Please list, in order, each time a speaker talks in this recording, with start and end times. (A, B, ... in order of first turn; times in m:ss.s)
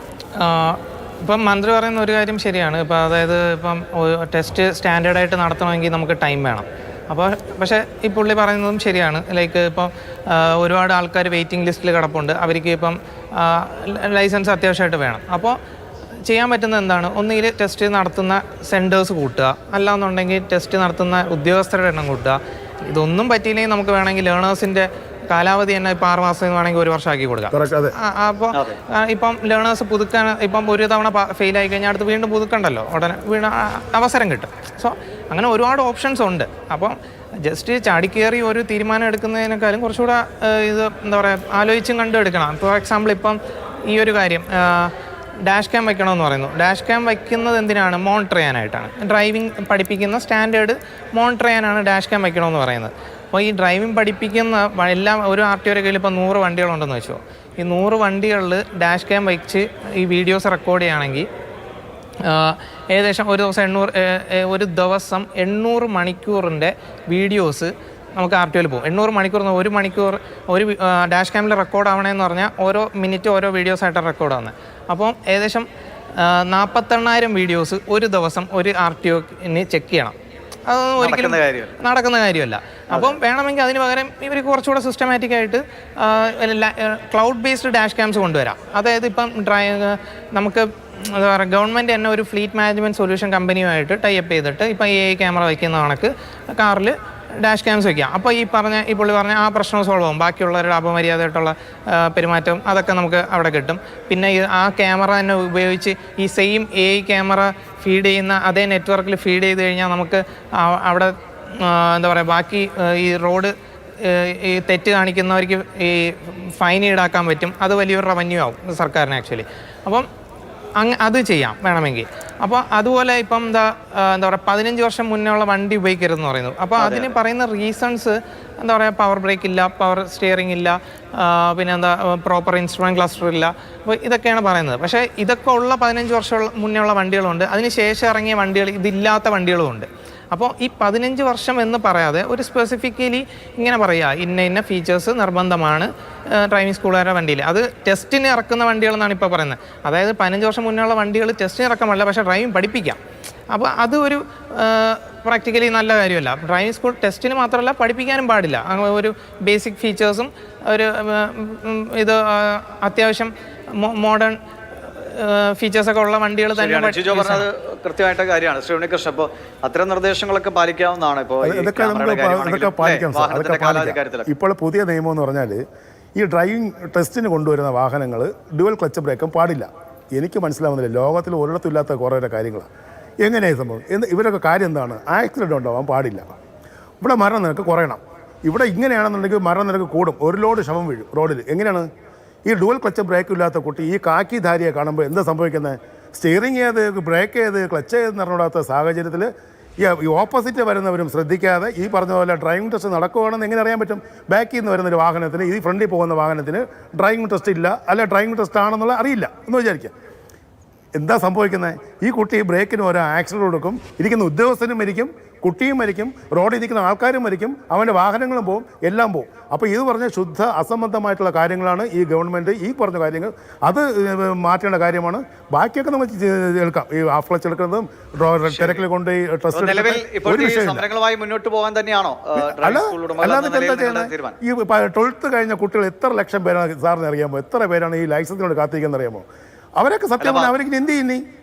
0:00.4-0:15.6 A
0:16.3-1:01.3 A
0:27.5-0:28.0 B
0:28.5-0:28.8 C
1:02.2-1:20.2 A
1:20.7-2:00.1 A
1:21.0-1:21.8 C
2:00.8-2:33.0 A
2:06.8-2:07.1 C
2:33.5-2:47.5 A
2:46.6-2:54.3 C
2:51.4-2:55.6 B
2:56.2-3:02.7 B
3:03.2-3:06.3 B
3:07.0-3:11.9 B
3:12.5-3:29.9 B
3:31.0-3:50.8 B
3:48.5-3:48.8 C
3:49.5-3:54.4 C
3:52.4-3:59.3 B
3:59.8-4:01.2 B
4:00.2-4:00.5 C